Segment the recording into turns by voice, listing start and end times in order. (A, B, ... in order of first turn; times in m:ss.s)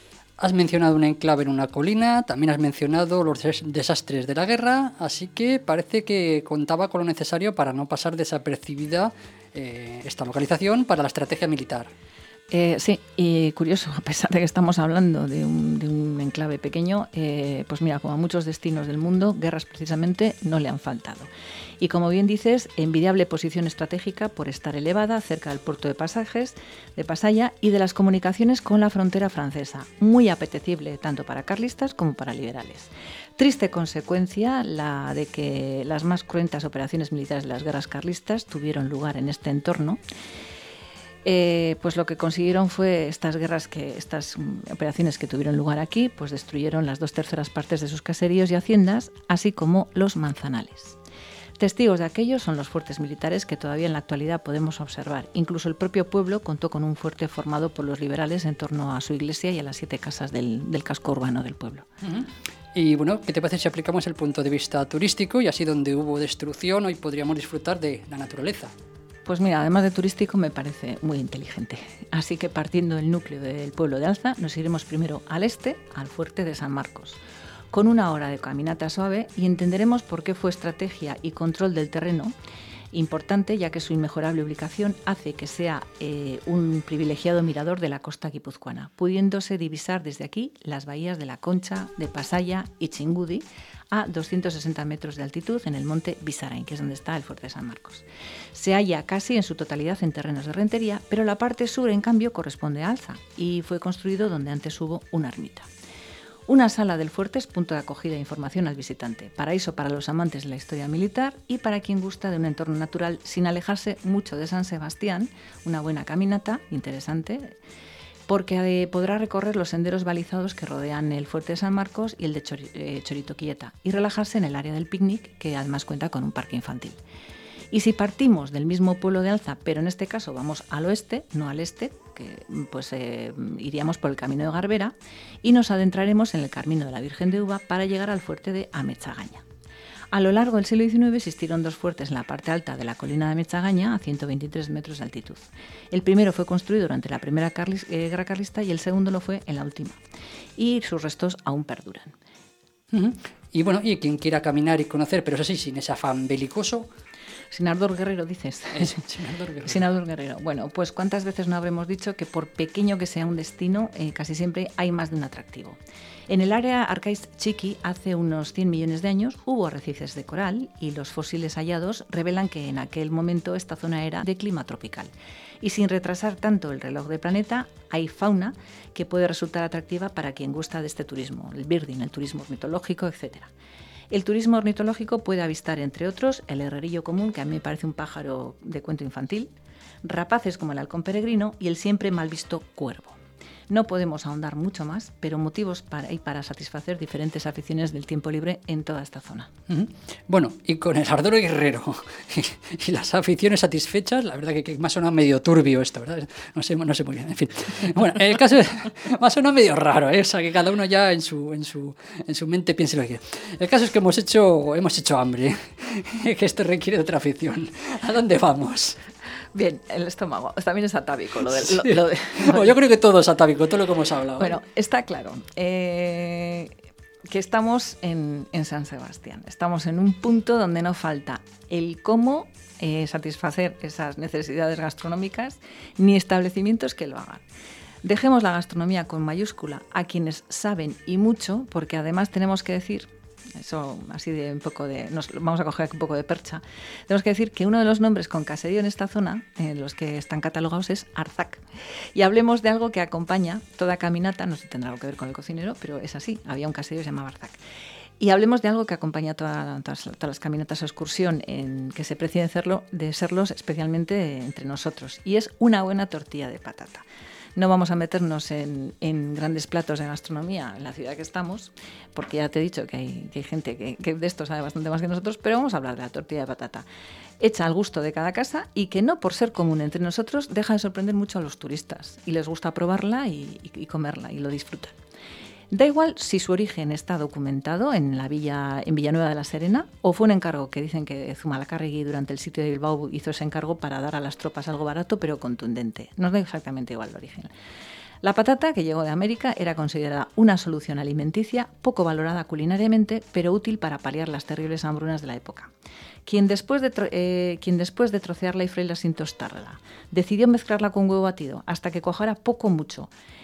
0:00.4-0:11.9 A
0:12.5-0:40.0 B
0:41.2-0:51.0 B
0:51.6-1:01.9 B
1:02.0-1:08.7 A
1:09.3-1:17.2 B
1:17.7-1:22.3 B
1:22.9-1:45.7 B
1:46.5-1:57.6 B
1:58.3-2:07.0 B
2:07.7-2:19.4 B
2:20.1-2:30.0 B
2:30.6-2:32.2 B
2:32.9-2:36.9 A
2:37.5-2:39.0 B
2:38.8-2:39.8 A
2:39.6-2:45.8 B
2:46.3-3:03.5 B
3:04.1-3:09.5 B
3:10.0-3:19.5 B
3:19.7-3:39.0 A
3:39.6-3:42.7 B
3:41.6-3:44.6 A
3:44.4-3:46.8 B
3:47.3-3:57.4 B
3:58.0-4:11.6 B
4:12.2-4:17.6 B
4:18.2-4:36.8 B
4:37.4-4:45.0 B
4:45.7-4:57.5 B
4:58.2-5:05.7 B
5:06.3-5:13.1 B